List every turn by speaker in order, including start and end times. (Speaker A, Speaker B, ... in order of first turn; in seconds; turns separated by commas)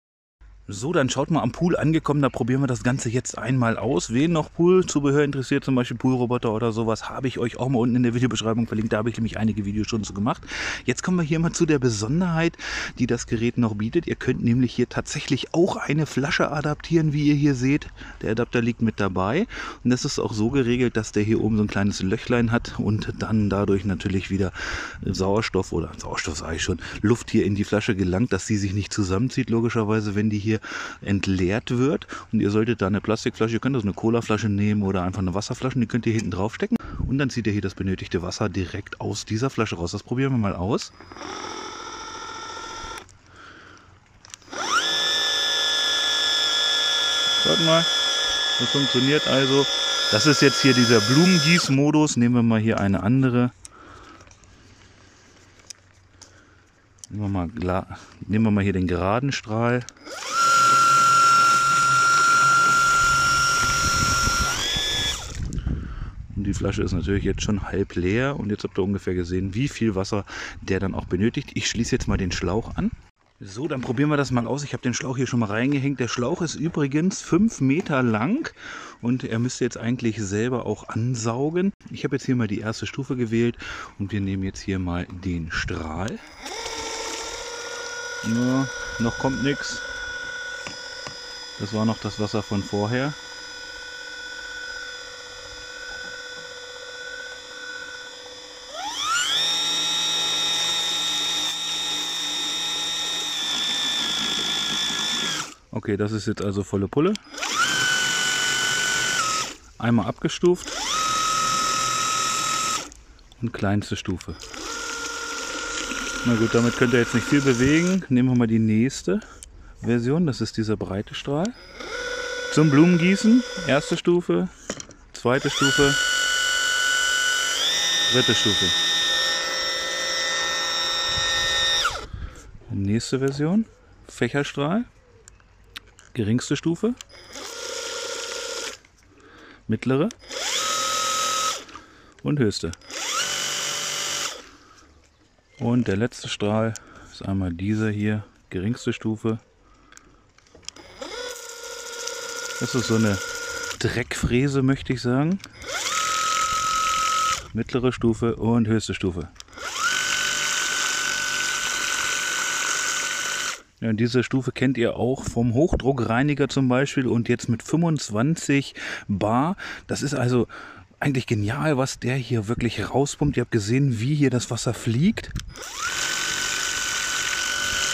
Speaker A: 0.7-40.9, Speaker A: 47.4-47.9, Speaker A: 48.6-53.5, Speaker A: 57.1-59.9, Speaker A: 66.3-86.2, Speaker A: 88.2-89.9, Speaker A: 91.6-93.2, Speaker A: 105.7-107.2, Speaker A: 109.8-110.8, Speaker A: 113.4-114.4, Speaker A: 116.2-119.2, Speaker A: 119.8-121.5, Speaker A: 122.5-124.5, Speaker A: 125.1-126.0, Speaker A: 128.1-128.8, Speaker A: 132.7-134.9, Speaker A: 136.1-137.0, Speaker A: 139.7-140.1, Speaker A: 142.2-142.8, Speaker A: 145.6-149.4, Speaker A: 152.6-153.2, Speaker A: 153.8-155.4, Speaker A: 157.5-159.3, Speaker A: 163.8-175.3